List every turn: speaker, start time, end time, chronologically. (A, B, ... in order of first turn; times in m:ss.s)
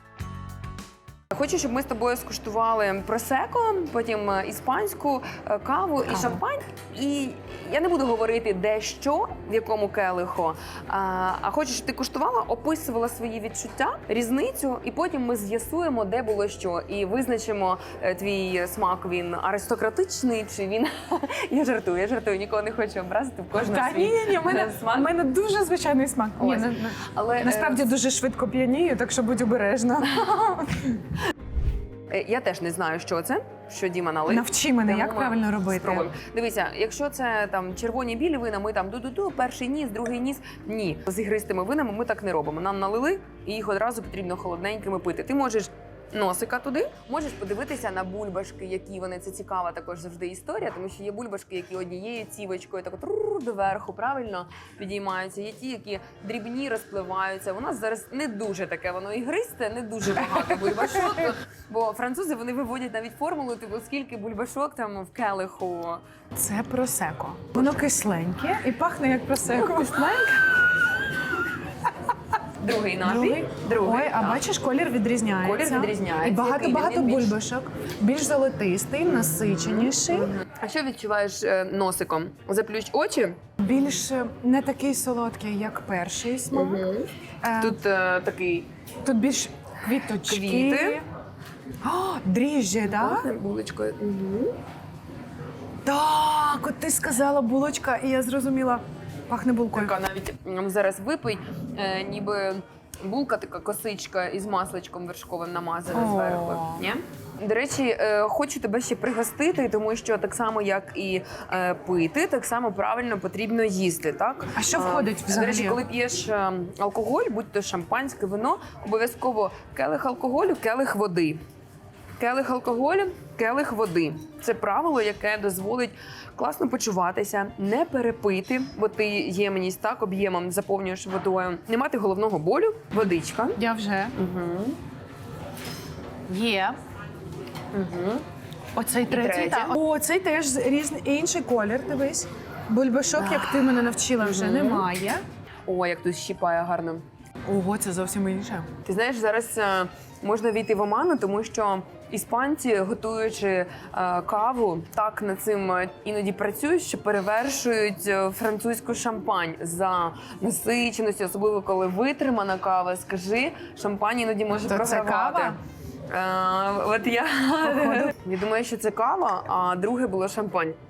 0:01.3-0:25.1 A
0:23.5-0:31.0 B
0:26.4-0:27.9 A
0:32.1-1:06.0 A
0:34.3-0:36.1 B
1:00.2-1:01.3 B
1:06.4-1:10.2 B
1:09.5-1:10.3 A
1:12.6-1:14.4 A
1:13.0-1:20.3 B
1:15.4-1:17.4 A
1:19.2-1:23.4 A
1:23.6-1:26.8 B
1:26.5-1:27.1 A
1:27.4-1:27.8 B
1:27.6-1:28.7 A
1:29.0-1:31.0 B
1:30.2-1:31.0 A
1:31.8-1:33.3 B
1:32.8-1:34.5 A
1:35.8-1:40.0 B
1:39.7-2:01.4 A
1:45.9-1:46.8 B
1:54.5-1:55.8 B
2:02.2-2:13.6 A
2:13.6-2:14.1 B
2:14.2-2:14.8 A
2:16.3-2:16.8 B
2:17.7-2:18.2 A
2:18.7-2:25.2 B
2:19.1-2:19.8 A
2:24.2-2:24.8 A
2:25.7-2:27.0 A
2:27.4-2:28.7 B
2:28.8-2:45.6 A
2:44.6-2:45.6 B
2:46.1-2:50.8 A
2:47.6-2:48.1 B